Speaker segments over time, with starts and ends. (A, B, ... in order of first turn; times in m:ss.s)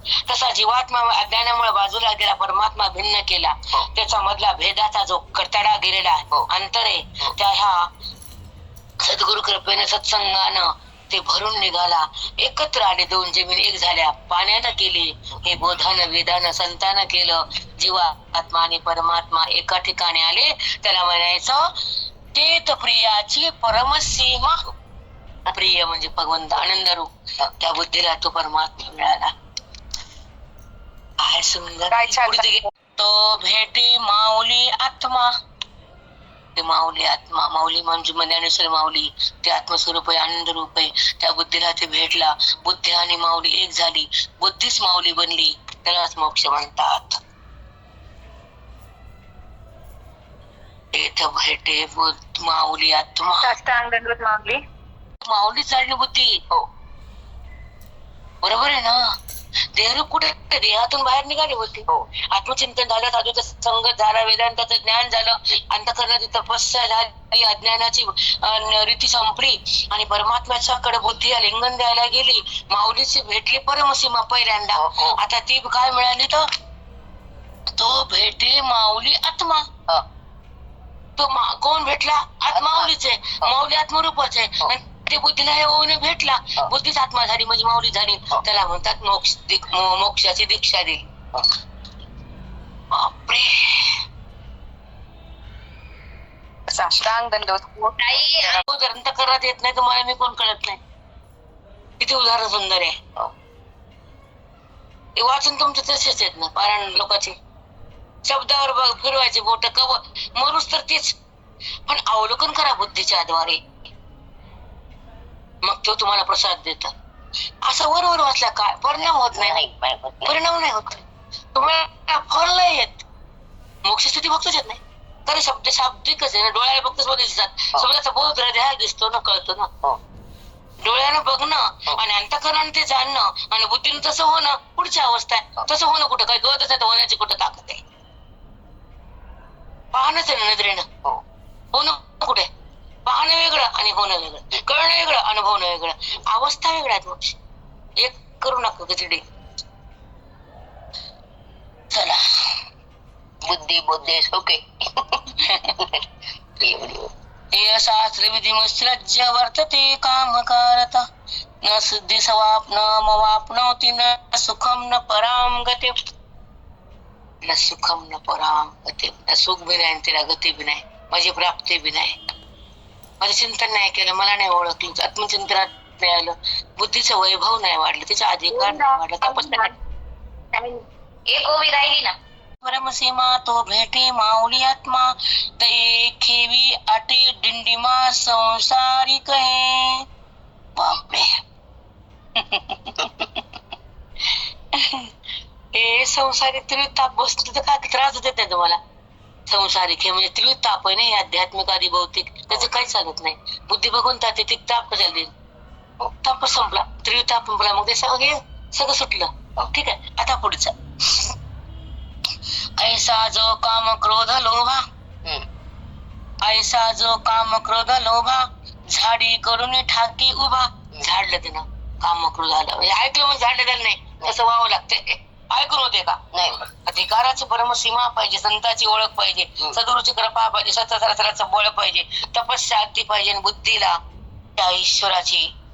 0:00.3-0:07.9 A
0:09.0-0:21.7 A
0:22.3-0:24.6 A
0:25.5-0:29.3 A
0:31.2-0:35.3 A
0:31.9-0:32.5 B
0:36.6-0:47.2 A
0:50.9-0:53.5 A
0:53.4-0:54.6 B
0:55.2-0:56.4 A
0:58.4-0:59.0 A
0:59.7-1:16.5 A
1:14.8-1:15.2 C
1:17.8-1:19.7 A
1:21.2-1:31.1 A
1:22.5-1:22.9 C
1:32.9-1:34.0 A
1:36.7-1:38.6 B
1:38.5-1:40.8 A
1:42.0-1:43.0 A
1:45.2-1:47.4 A
1:48.2-1:51.2 A
1:51.9-1:53.6 A
1:55.6-1:56.9 A
1:57.6-1:59.6 A
1:59.3-2:00.4 C
2:00.3-2:03.0 A
2:03.8-2:09.7 A
2:10.8-2:17.8 A
2:19.9-2:20.9 A
2:21.7-2:22.5 A
2:23.0-2:27.4 A
2:28.0-2:29.2 A
2:31.9-2:32.2 A
2:33.4-2:36.0 C
2:35.4-2:35.8 A
2:36.6-2:37.1 C
2:37.5-2:41.1 A
2:41.6-2:46.0 A
2:47.4-2:52.1 A
2:53.2-2:59.7 A
2:58.5-2:59.7 B
3:00.5-3:02.2 B
3:02.6-3:10.0 A
3:10.8-3:11.3 A
3:12.4-3:13.4 A
3:14.7-3:15.1 A
3:15.7-3:18.8 A
3:19.5-3:25.3 A
3:26.2-3:31.3 A
3:32.8-3:34.8 A
3:36.4-3:46.2 A
3:46.3-3:46.7 C
3:46.8-3:54.0 A
3:54.6-3:55.5 A